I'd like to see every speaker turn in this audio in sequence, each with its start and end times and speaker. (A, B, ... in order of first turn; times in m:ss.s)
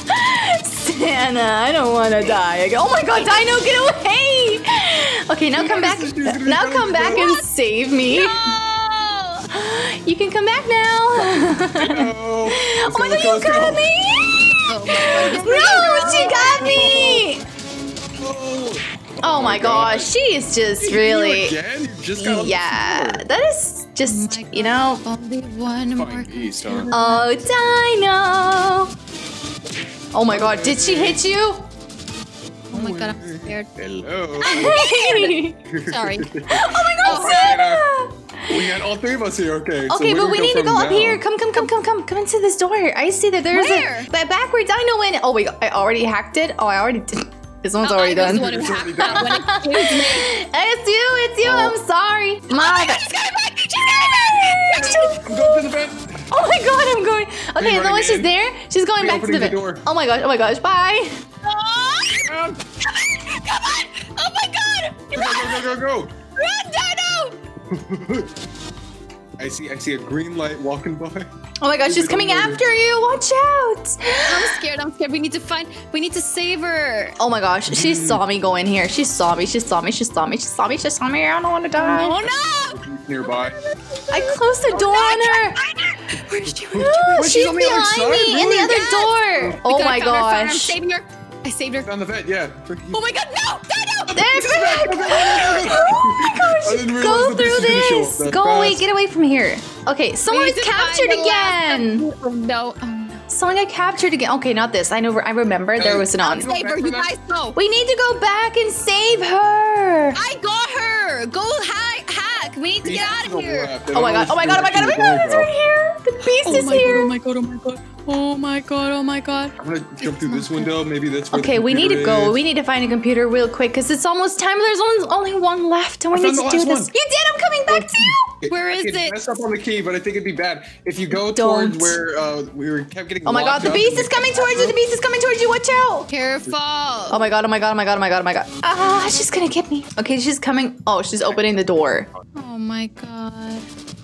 0:00.1-0:08.6 A
0:03.1-0:03.8 B
0:05.5-0:07.4 C
0:08.1-0:09.5 B
0:09.5-0:17.4 A
0:11.1-0:14.0 C
0:14.7-0:16.6 B
0:14.9-0:17.3 C
0:18.2-0:20.1 C
0:19.2-0:21.5 A
0:20.8-0:23.3 C
0:22.2-0:25.0 A
0:24.1-0:27.5 B
0:25.9-0:26.9 C
0:26.9-0:28.9 A
0:30.1-0:31.6 A
0:30.3-0:31.2 C
0:32.7-0:34.9 C
0:32.7-0:36.4 B
0:34.4-0:35.6 A
0:35.7-0:37.8 C
0:36.5-0:38.8 A
0:37.0-0:37.6 B
0:38.4-0:41.2 C
0:39.9-0:53.0 A
0:43.5-0:44.1 B
0:47.8-0:50.3 B
0:48.1-0:49.5 C
0:51.4-0:51.8 C
0:52.5-0:55.0 B
0:53.8-0:55.7 A
0:54.7-0:56.3 C
0:56.3-1:01.2 A
0:57.6-0:58.3 C
0:59.0-0:59.8 C
1:01.4-1:02.3 B
1:02.2-1:02.6 C
1:02.8-1:05.7 B
1:05.1-1:06.1 C
1:06.4-1:07.4 B
1:07.7-1:08.3 C
1:09.4-1:11.3 C
1:11.6-1:14.6 A
1:11.8-1:12.6 C
1:14.2-1:17.2 B
1:17.2-1:22.2 A
1:17.7-1:18.2 C
1:21.8-1:22.8 B
1:22.2-1:23.6 C
1:24.1-1:25.6 A
1:24.1-1:27.1 B
1:26.5-1:29.6 C
1:26.7-1:30.8 A
1:28.7-1:31.9 B
1:31.8-1:33.0 C
1:32.9-1:35.7 B
1:34.1-1:42.0 A
1:34.1-1:38.8 C
1:40.3-1:43.2 B
1:43.3-1:46.5 A
1:45.8-1:47.1 C
1:46.2-1:47.6 B
1:47.6-1:50.2 A
1:50.2-1:53.7 B
1:52.8-1:55.5 C
1:53.9-1:57.1 A
1:56.4-2:00.6 B
1:59.6-2:02.4 C
2:01.3-2:08.3 A
2:06.1-2:06.9 C
2:07.7-2:14.8 C
2:08.5-2:09.1 B
2:11.1-2:12.0 A
2:13.2-2:16.1 A
2:16.1-2:17.2 B
2:17.1-2:22.1 A
2:22.3-2:23.6 B